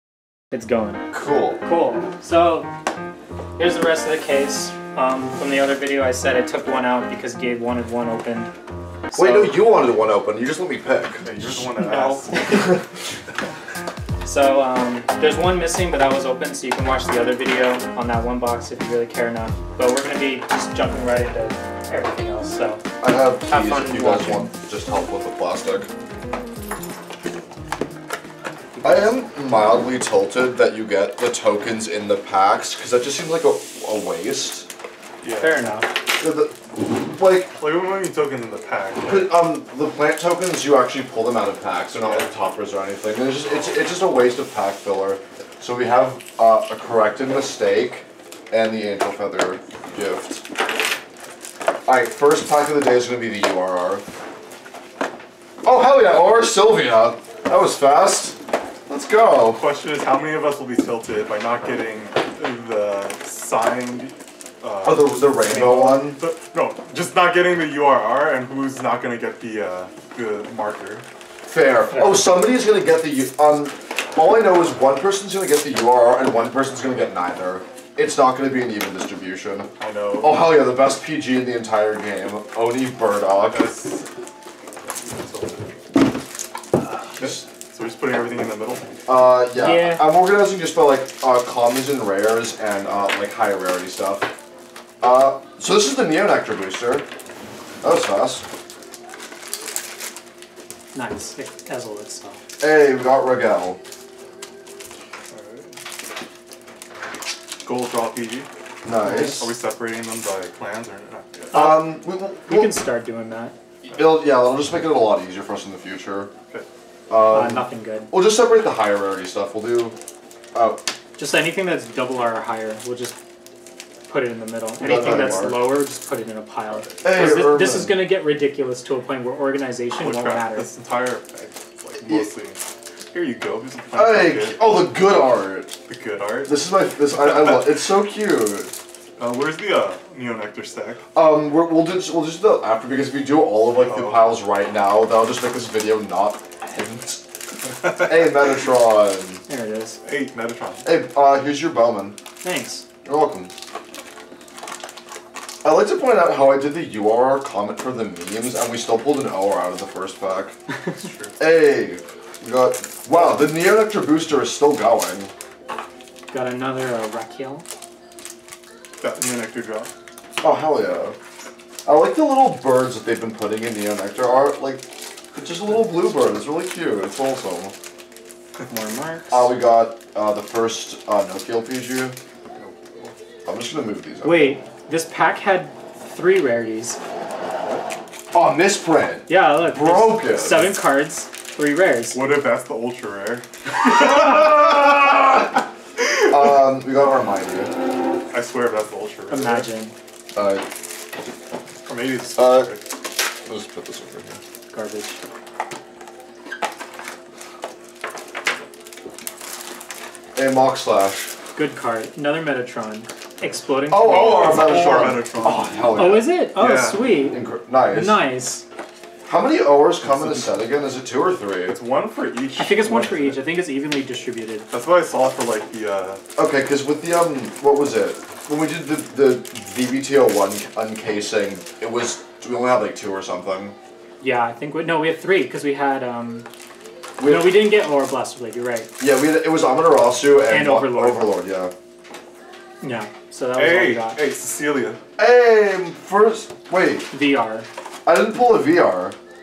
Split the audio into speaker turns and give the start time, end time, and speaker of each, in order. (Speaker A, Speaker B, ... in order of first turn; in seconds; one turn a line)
Speaker A: 0.5-1.0
Speaker B: 1.1-1.6
Speaker A: 1.6-2.7
Speaker A: 3.6-8.5
Speaker A: 9.1-9.7
Speaker B: 9.1-11.3
Speaker C: 11.2-12.7
Speaker A: 11.7-12.8
Speaker A: 14.2-22.8
Speaker B: 23.0-25.9
Speaker A: 23.5-24.5
Speaker A: 28.7-29.1
Speaker B: 28.8-34.7
Speaker C: 35.2-35.7
Speaker A: 35.4-35.9
Speaker B: 36.2-37.5
Speaker C: 37.5-39.3
Speaker B: 39.0-50.4
Speaker C: 42.0-42.3
Speaker C: 43.4-43.8
Speaker B: 51.9-54.0
Speaker B: 55.6-59.6
Speaker C: 59.5-71.0
Speaker B: 64.8-66.2
Speaker A: 65.5-66.1
Speaker B: 71.5-83.6
Speaker A: 71.9-72.2
Speaker C: 79.8-80.6
Speaker C: 83.5-84.1
Speaker C: 84.9-85.8
Speaker B: 87.2-87.4
Speaker C: 87.2-88.9
Speaker B: 89.0-94.3
Speaker A: 89.5-90.0
Speaker B: 95.0-97.0
Speaker B: 97.8-98.4
Speaker A: 100.9-102.4
Speaker B: 102.6-103.8
Speaker C: 105.3-105.7
Speaker C: 107.6-108.5
Speaker B: 108.8-109.5
Speaker C: 109.0-111.6
Speaker A: 109.1-109.3
Speaker B: 111.5-112.8
Speaker A: 111.5-113.5
Speaker B: 113.8-116.3
Speaker B: 117.1-120.0
Speaker A: 117.3-118.1
Speaker B: 120.5-120.8
Speaker A: 121.2-123.2
Speaker A: 124.1-130.7
Speaker B: 124.8-125.7
Speaker B: 127.0-128.0
Speaker C: 130.0-134.7
Speaker B: 132.0-132.3
Speaker B: 133.9-135.8
Speaker C: 135.9-136.6
Speaker B: 136.4-138.7
Speaker C: 139.2-141.0
Speaker B: 141.1-147.2
Speaker C: 143.7-144.4
Speaker B: 147.8-149.4
Speaker A: 149.5-150.0
Speaker C: 150.0-150.9
Speaker B: 150.8-152.2
Speaker A: 152.4-152.8
Speaker B: 153.0-153.5
Speaker B: 155.6-160.6
Speaker C: 160.9-161.3
Speaker B: 161.4-165.3
Speaker A: 166.3-167.7
Speaker C: 169.0-169.9
Speaker B: 170.4-171.2
Speaker B: 171.8-177.7
Speaker A: 178.7-179.5
Speaker B: 179.3-182.2
Speaker C: 182.5-183.2
Speaker B: 183.4-184.6
Speaker A: 184.2-187.0
Speaker C: 187.6-187.9
Speaker B: 188.3-190.8
Speaker A: 189.3-192.2
Speaker C: 192.1-193.4
Speaker B: 193.8-195.5
Speaker B: 196.2-197.7
Speaker C: 198.3-199.7
Speaker A: 199.3-199.9
Speaker B: 200.3-200.7
Speaker C: 201.8-202.8
Speaker B: 202.4-202.8
Speaker B: 203.4-204.4
Speaker A: 204.7-205.2
Speaker B: 210.3-211.3
Speaker A: 211.6-215.3
Speaker B: 213.9-216.3
Speaker C: 214.0-217.1
Speaker A: 215.9-218.6
Speaker B: 217.3-218.2
Speaker B: 219.2-221.8
Speaker C: 220.0-220.5
Speaker C: 221.7-223.4
Speaker A: 222.6-224.7
Speaker C: 224.7-226.2
Speaker B: 226.3-233.8
Speaker A: 234.2-236.5
Speaker B: 237.2-237.7
Speaker A: 237.2-238.9
Speaker B: 239.0-241.7
Speaker A: 240.5-241.3
Speaker A: 242.8-244.2
Speaker C: 243.6-245.0
Speaker B: 245.2-247.1
Speaker A: 247.1-247.7
Speaker B: 248.0-249.2